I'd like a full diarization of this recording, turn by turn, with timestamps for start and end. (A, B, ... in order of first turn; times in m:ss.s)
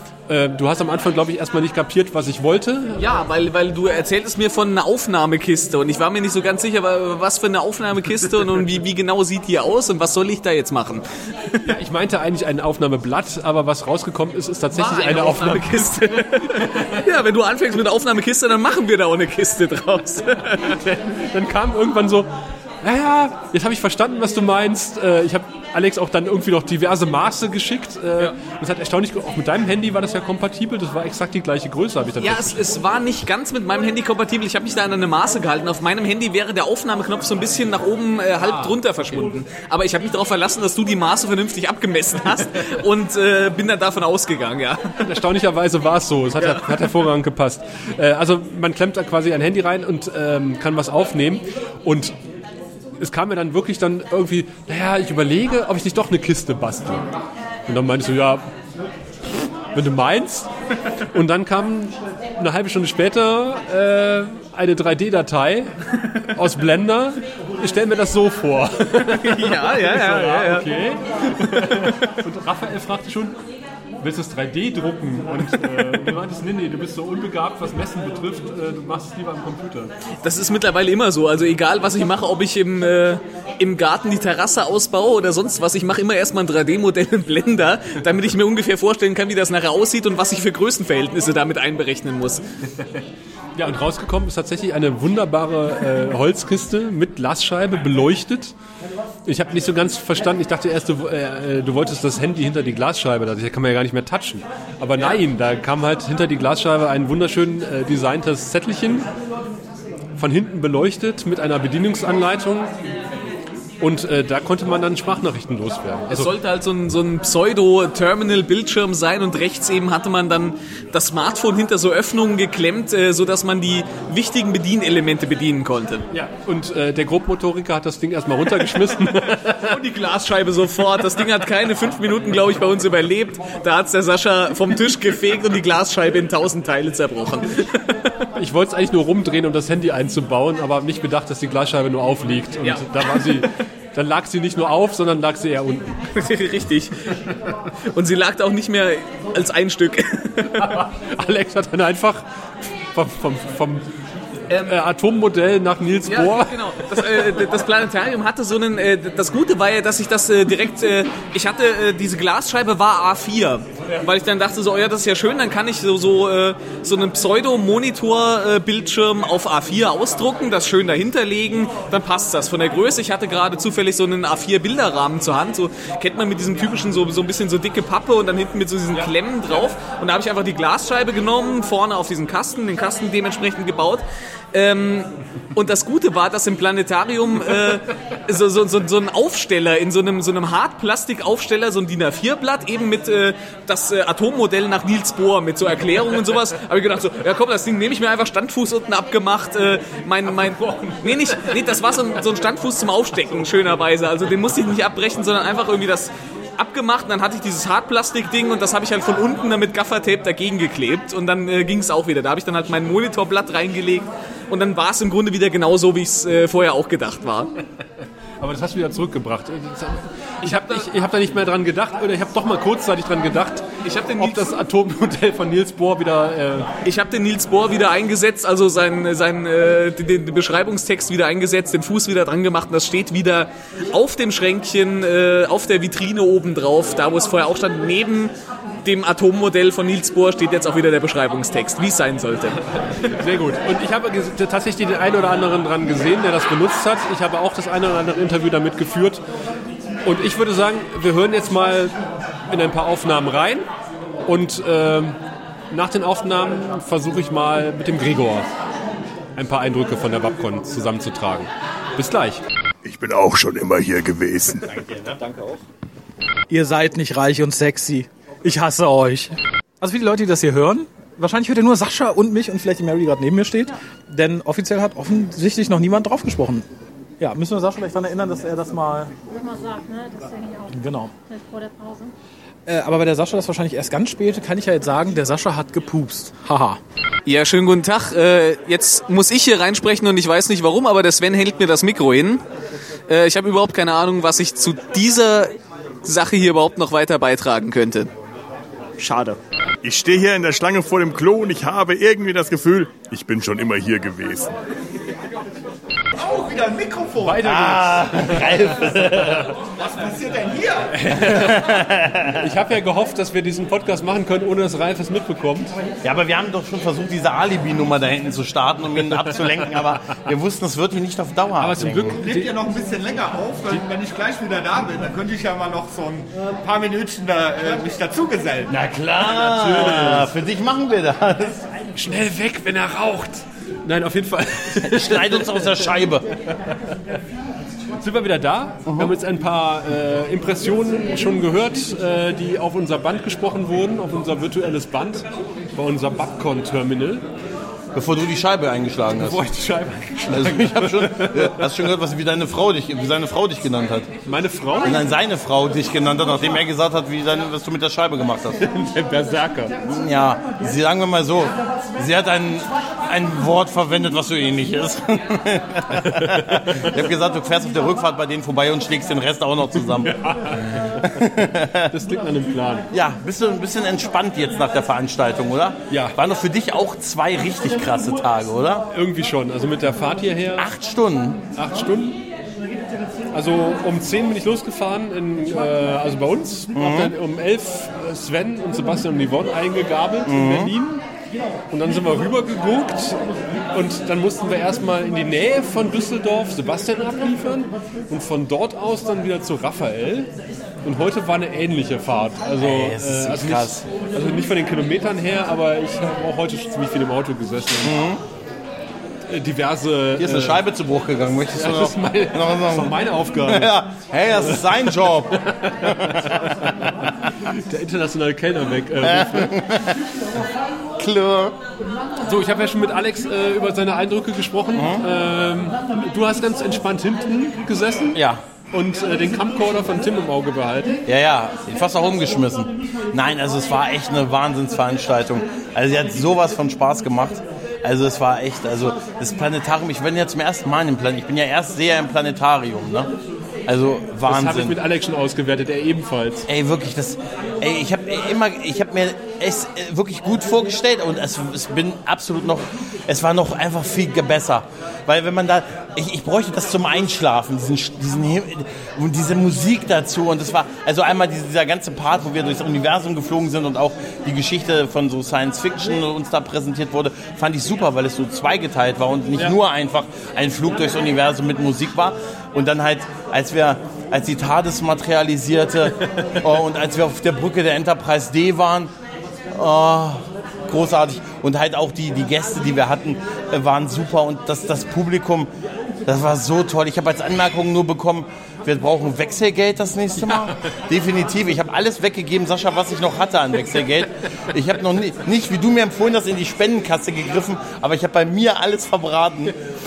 0:00.3-0:03.0 A
0:03.0-0:11.6 B
0:11.6-0:16.9 A
0:14.7-0:20.8 B
0:20.6-0:22.3 A
0:22.8-0:32.6 A
0:32.2-0:45.1 B
0:38.4-0:39.2 A
0:45.0-0:52.2 A
0:46.4-0:46.9 B
0:53.0-0:57.1 A
0:57.7-0:58.5 A
0:59.7-1:00.5 A
1:01.1-1:05.7 A
1:06.3-1:13.4 A
1:09.0-1:10.8 B
1:11.4-1:12.1 B
1:14.0-1:19.9 A
1:15.6-1:16.0 B
1:20.2-1:32.4 B
1:33.6-1:38.5 A
1:39.3-1:49.1 A
1:50.2-1:52.7 A
1:53.8-1:56.3 A
1:56.1-2:06.0 B
2:06.1-2:09.8 A
2:09.6-2:18.1 B
2:18.4-2:25.9 A
2:22.6-2:23.5 B
2:26.1-2:27.2 B
2:27.8-2:30.8 B
2:30.6-2:32.2 A
2:32.9-2:33.8 A
2:34.5-2:34.8 B
2:34.6-2:37.2 A
2:36.1-3:37.5 B
3:20.7-3:21.5 A
3:38.4-3:46.7 A
3:40.4-3:40.9 B
3:43.8-3:44.6 B
3:46.8-3:58.3 B
3:58.8-4:03.1 B
4:03.1-4:09.2 A
4:10.0-4:11.9 A
4:12.5-4:13.7 A
4:14.3-4:15.2 A
4:15.7-4:18.5 A
4:19.4-4:22.4 A
4:22.8-4:24.8 C
4:24.7-4:25.2 D
4:25.2-4:25.6 E
4:26.5-4:36.7 F
4:37.2-4:39.1 F
4:39.4-4:42.1 G
4:40.7-4:41.1 F
4:42.7-4:46.8 F
4:47.2-4:52.4 B
4:53.1-4:58.1 B
4:59.0-5:04.5 C
5:06.2-5:07.5 E
5:07.2-5:09.3 A
5:07.4-5:09.5 D
5:09.6-5:11.0 E
5:10.9-5:11.7 A
5:11.1-5:12.5 D
5:12.4-5:15.8 A
5:16.0-5:22.2 D
5:21.6-5:22.5 A
5:22.1-5:28.7 E
5:28.7-5:31.6 D
5:29.3-5:30.3 A
5:32.0-5:35.8 A
5:34.8-5:36.2 D
5:38.0-5:47.2 A
5:38.9-5:39.1 D
5:47.9-5:49.4 D
5:49.1-5:51.7 A
5:50.3-5:54.1 D
5:54.2-5:55.0 A
5:54.8-5:58.6 D
5:58.6-5:59.8 A
5:59.8-6:10.2 D
6:06.0-6:06.9 A
6:09.7-6:11.2 A
6:11.0-6:11.9 D
6:11.9-6:12.9 A
6:12.9-6:18.9 D
6:15.9-6:16.2 A
6:18.9-6:20.7 A
6:20.6-6:21.4 D
6:21.6-6:22.2 A
6:23.3-6:31.0 A
6:26.8-6:27.1 D
6:30.3-6:30.7 D
6:31.7-6:33.2 A
6:33.7-6:40.3 A
6:40.8-6:47.9 A
6:42.6-6:43.8 D
6:47.8-6:48.2 D
6:49.3-6:50.6 A
6:50.2-6:56.5 D
6:51.5-6:53.7 A
6:54.4-6:59.6 A
6:59.0-7:00.0 D
7:01.0-7:01.6 D
7:02.2-7:08.2 A
7:04.7-7:05.0 D
7:08.1-7:08.4 D
7:08.7-7:11.0 A
7:11.1-7:23.1 D
7:23.7-7:24.8 D
7:24.3-7:26.5 A
7:26.5-7:58.9 D
7:59.5-8:05.5 D
8:06.1-8:19.5 D